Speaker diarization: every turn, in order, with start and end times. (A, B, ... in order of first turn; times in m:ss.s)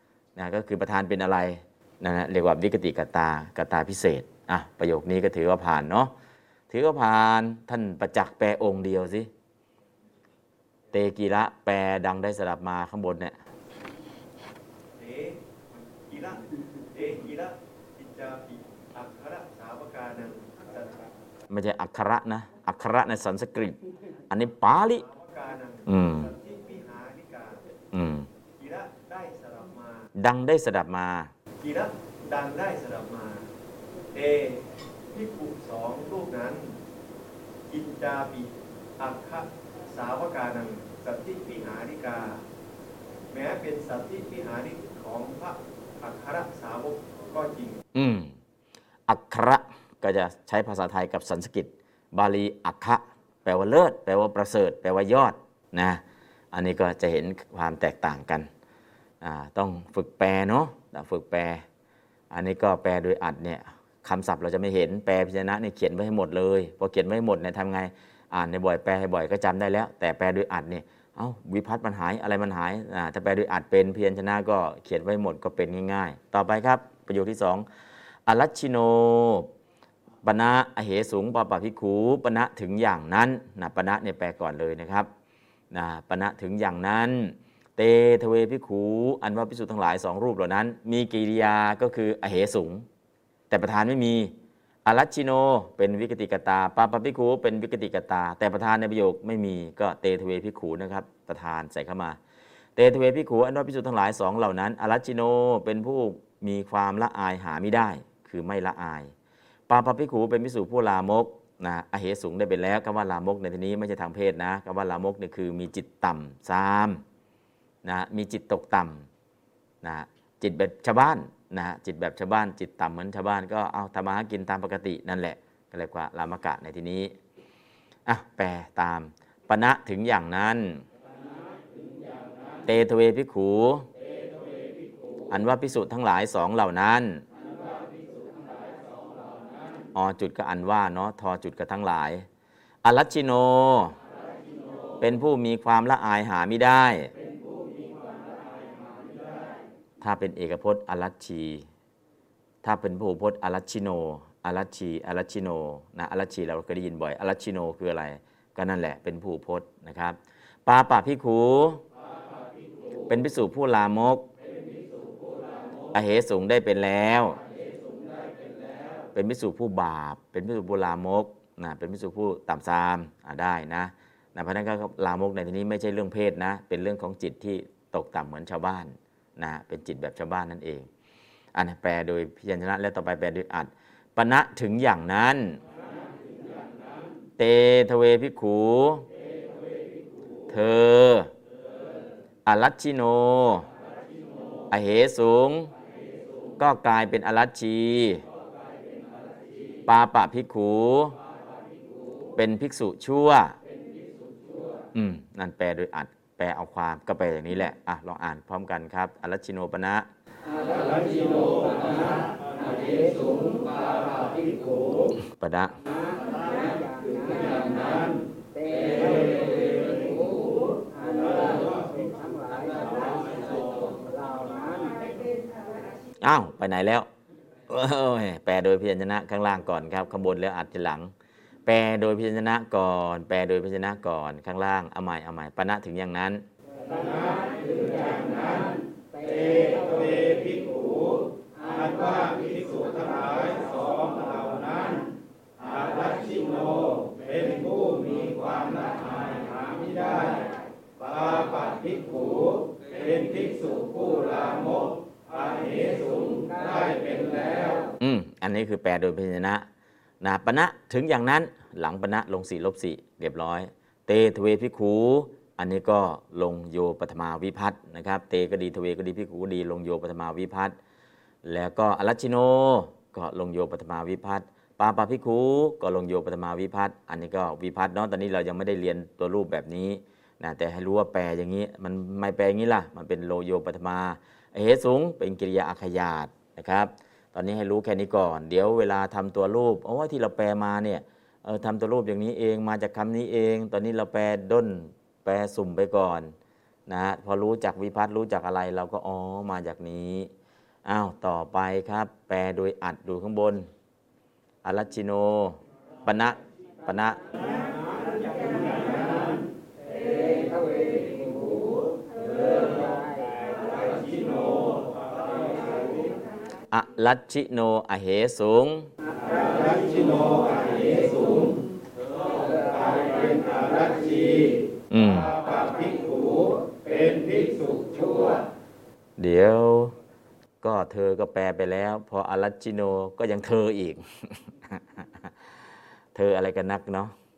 0:00.4-0:06.1 A
0:06.7-0:09.3 A
0:10.9-0:13.4 A
0:15.0-0:15.4 B
0:16.0-0:21.1 B
0:21.5-0:23.8 A
0:24.3-0:25.0 A
0:25.1-0:27.7 B
0:25.8-0:26.3 A
0:27.9-0:28.3 A
0:28.6-0:30.1 B
0:30.2-0:31.3 A
0:31.6-0:33.5 B
0:34.1-0:36.8 B
0:37.7-0:42.4 B
0:43.3-0:47.8 B
0:47.9-0:48.3 A
0:49.1-0:58.5 A
0:59.2-1:01.6 A
1:02.3-1:17.6 A
1:18.2-1:19.5 A
1:20.2-1:25.1 A
1:25.7-1:32.8 A
1:33.5-1:34.3 A
1:34.8-1:42.2 A
1:42.8-1:49.1 A
1:49.7-1:57.0 A
1:57.8-1:59.1 A
1:59.8-2:07.1 A
2:08.0-2:10.8 A
2:12.6-2:13.9 A
2:15.3-2:17.2 A
2:19.9-2:22.2 A
2:22.8-2:24.0 A
2:25.0-2:27.1 A
2:30.0-2:31.6 A
2:32.6-2:41.8 A
2:43.1-2:44.3 A
2:45.9-2:47.4 A
2:49.1-3:00.9 A
3:01.5-3:05.6 A
3:07.4-3:09.0 A
3:10.5-3:11.3 A
3:12.4-3:13.7 A
3:14.7-3:15.7 A
3:16.6-3:18.2 A
3:19.9-3:21.2 A
3:22.4-3:23.6 A
3:24.9-3:30.1 A
3:30.6-3:34.7 C
3:35.4-3:35.8 A
3:36.8-3:38.1 C
3:38.6-3:40.1 C
3:46.2-3:47.1 A
3:47.7-3:51.1 A
3:51.6-3:56.4 A
3:56.8-4:00.9 C
4:01.6-4:04.9 C
4:05.7-4:10.3 C
4:11.1-4:17.8 C
4:18.0-4:19.6 A
4:20.2-4:30.8 A
4:31.4-4:56.3 A
4:56.9-5:00.3 A
5:00.8-5:03.7 A
5:04.6-5:07.2 A
5:10.5-5:11.0 C
5:16.7-5:18.9 A
5:19.2-5:21.6 C
5:22.3-5:24.6 C
5:24.9-5:25.3 A
5:25.3-5:28.4 C
5:29.2-5:29.9 A
5:30.6-5:35.3 A
5:36.1-5:37.1 A